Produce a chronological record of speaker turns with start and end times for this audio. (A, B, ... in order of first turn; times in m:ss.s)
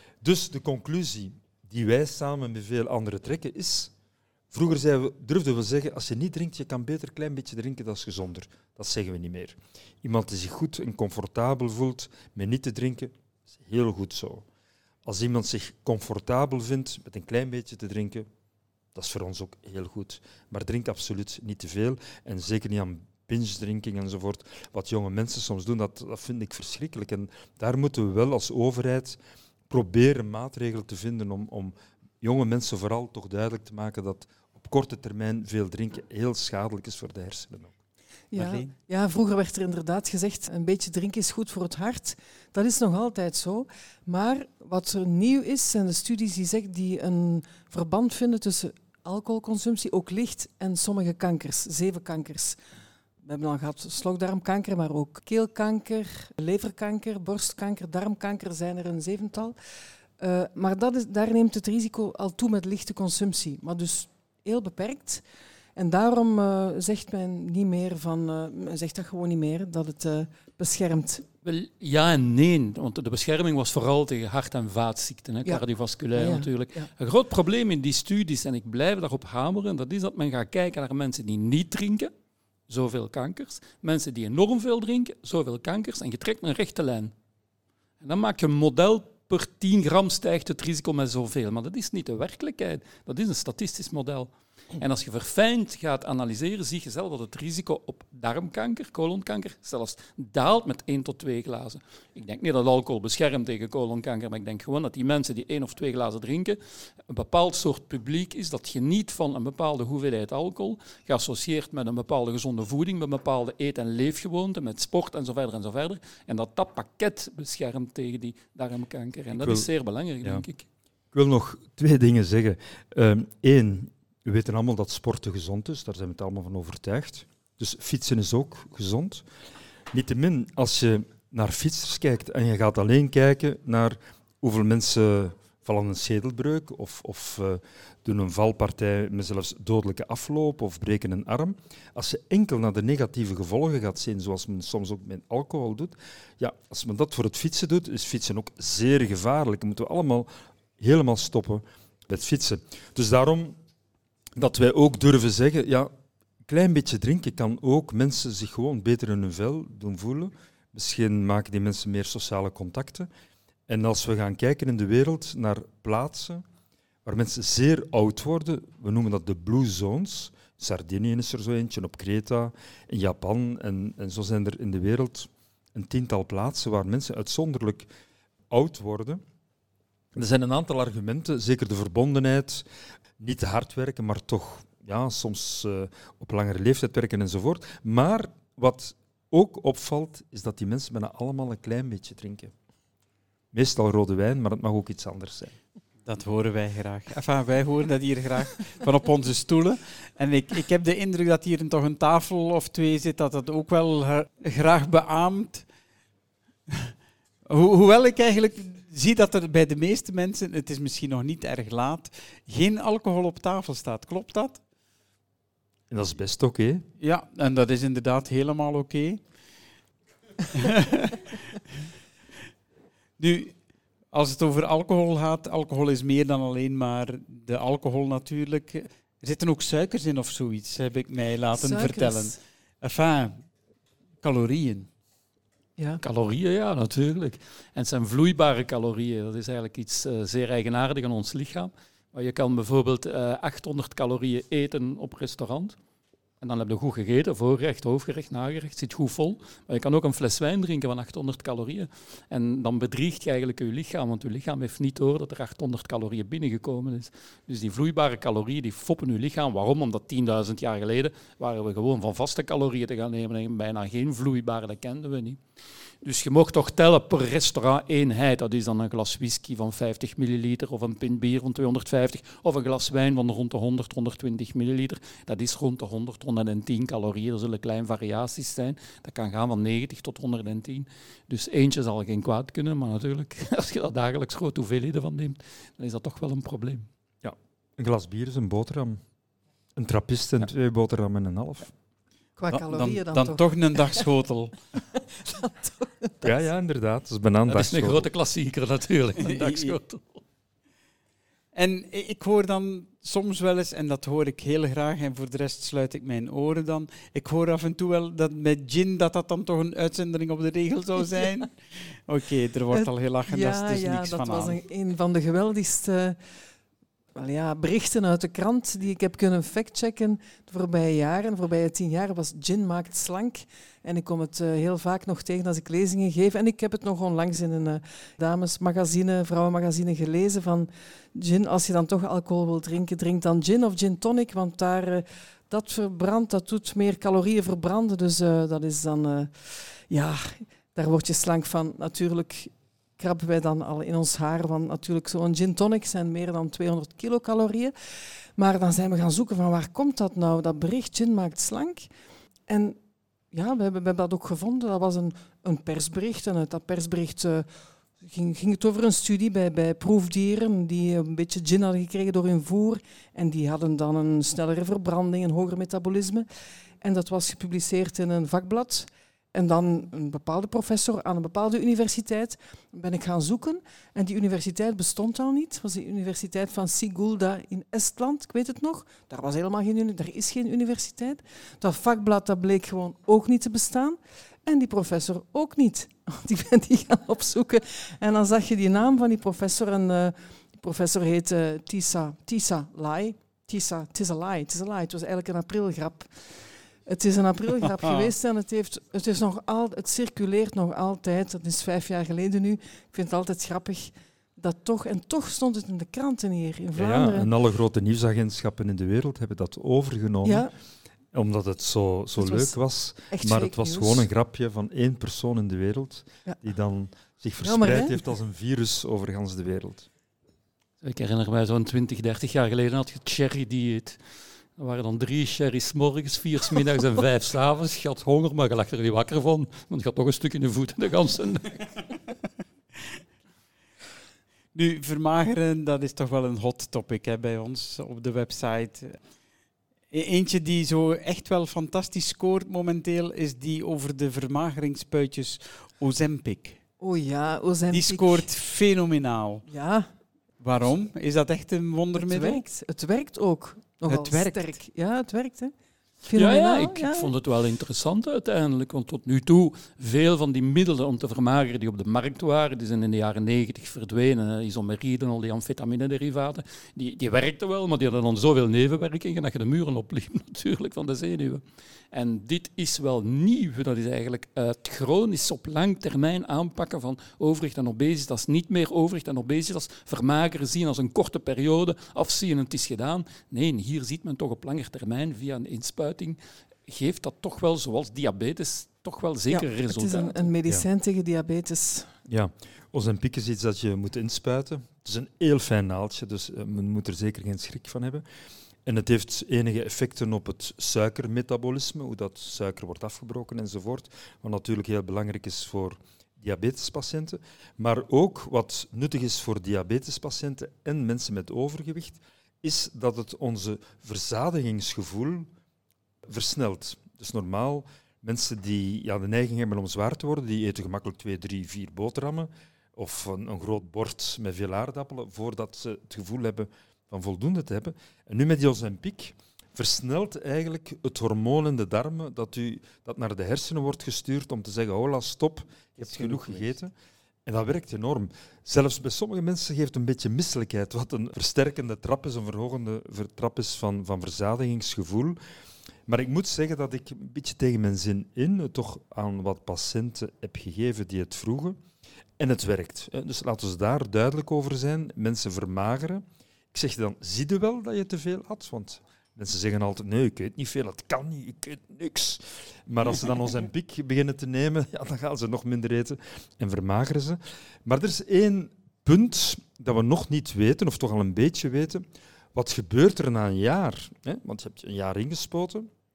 0:00.2-0:03.9 A
0:04.5-0:14.4 A
0:15.0-0:18.3 A
0:18.9-0:29.2 A
0:29.7-0:37.7 A
0:38.3-0:52.6 B
0:38.4-0:38.7 C
0:53.2-0:59.6 B
1:00.2-1:05.2 B
1:05.8-1:11.2 B
1:11.4-1:22.1 D
1:15.4-1:16.9 B
1:22.7-1:27.1 D
1:28.0-2:00.7 D
1:59.4-1:59.7 A
2:01.1-2:09.2 A
2:09.9-2:33.6 A
2:34.4-2:35.9 A
2:36.4-2:43.1 A
2:43.7-2:46.4 A
2:47.0-2:57.9 A
2:58.5-2:59.2 A
3:00.1-3:02.6 A
3:03.2-3:12.5 A
3:13.5-3:15.6 A
3:16.0-3:25.6 C
3:26.7-3:26.9 C
3:27.5-3:34.6 C
3:35.9-3:36.8 A
3:37.0-3:39.2 C
3:40.5-3:41.3 C
3:43.2-3:43.6 C
3:44.1-3:53.4 C
3:51.6-3:52.4 B
3:54.2-3:54.9 C
3:56.0-4:05.8 D
4:06.4-4:25.4 D
4:26.0-4:46.9 D
4:47.2-4:49.0 A
4:49.8-4:51.7 A
4:52.4-4:54.0 B
4:52.5-4:54.6 C
4:55.0-4:56.3 B
4:56.2-4:58.1 A
4:57.5-5:00.2 D
4:59.2-4:59.7 C
5:01.5-5:14.6 C
5:12.7-5:16.2 B
5:17.1-5:47.7 B
5:48.4-5:51.9 B
5:52.5-5:52.8 B
5:53.3-5:57.5 B
5:58.0-6:06.2 B
6:06.8-6:47.3 B
6:46.8-6:50.5 A
6:50.2-6:50.5 B
6:51.1-6:59.9 A
6:52.2-6:52.6 B
6:53.1-6:54.1 B
6:57.4-6:58.0 B
7:00.8-7:04.0 D
7:04.6-7:11.7 D
7:14.5-7:19.0 C
7:19.9-7:26.6 C
7:26.8-7:28.2 B
7:27.7-7:29.4 C
7:29.5-7:29.9 B
7:30.4-7:32.4 C
7:32.0-7:37.1 B
7:33.9-7:34.5 C
7:36.1-8:10.3 D
8:09.3-8:11.9 B
8:12.1-8:18.0 A
8:18.6-8:35.3 A
8:36.1-8:56.7 A
8:55.8-8:56.5 C
8:57.2-9:05.2 A
9:05.9-9:11.6 A
9:12.2-9:35.7 A